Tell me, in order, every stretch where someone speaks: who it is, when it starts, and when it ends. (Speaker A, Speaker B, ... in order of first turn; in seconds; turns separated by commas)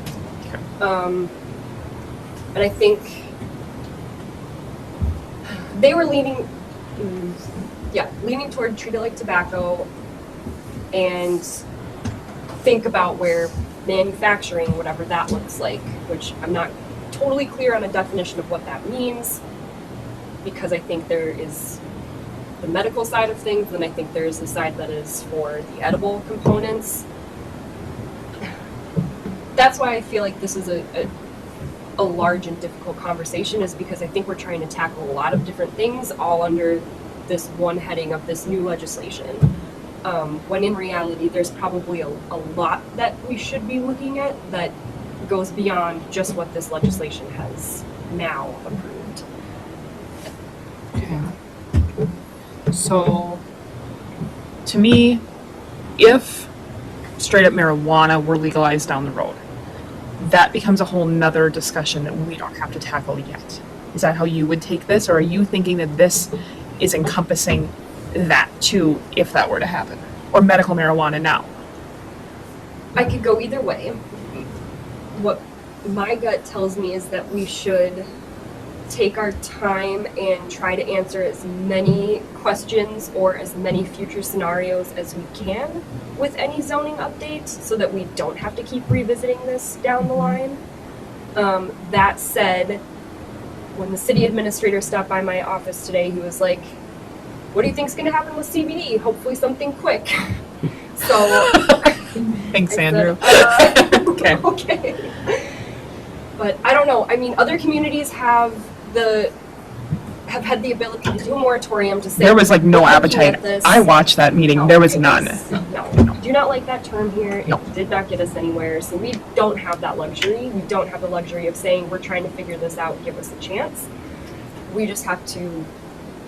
Speaker A: 0.8-1.3, Speaker A: 2.5-3.3, Speaker A: 5.7-9.9, Speaker A: 10.9-11.5, Speaker A: 12.6-19.4, Speaker A: 20.4-21.8, Speaker A: 22.6-27.1, Speaker A: 29.6-31.1, Speaker A: 32.0-39.5, Speaker A: 40.0-49.2, Speaker B: 51.0-51.3, Speaker B: 52.7-53.4, Speaker B: 54.7-55.2, Speaker B: 56.0-56.5, Speaker B: 57.2-59.4, Speaker B: 60.2-71.5, Speaker A: 73.0-74.0, Speaker A: 75.2-78.1, Speaker A: 78.9-90.6, Speaker A: 91.4-92.8, Speaker A: 93.8-96.8, Speaker A: 97.5-100.1, Speaker A: 101.0-102.0, Speaker B: 102.4-104.4, Speaker A: 102.7-105.5, Speaker A: 106.4-109.3, Speaker A: 110.3-113.9, Speaker B: 112.2-115.4, Speaker A: 114.5-123.9, Speaker A: 124.7-125.7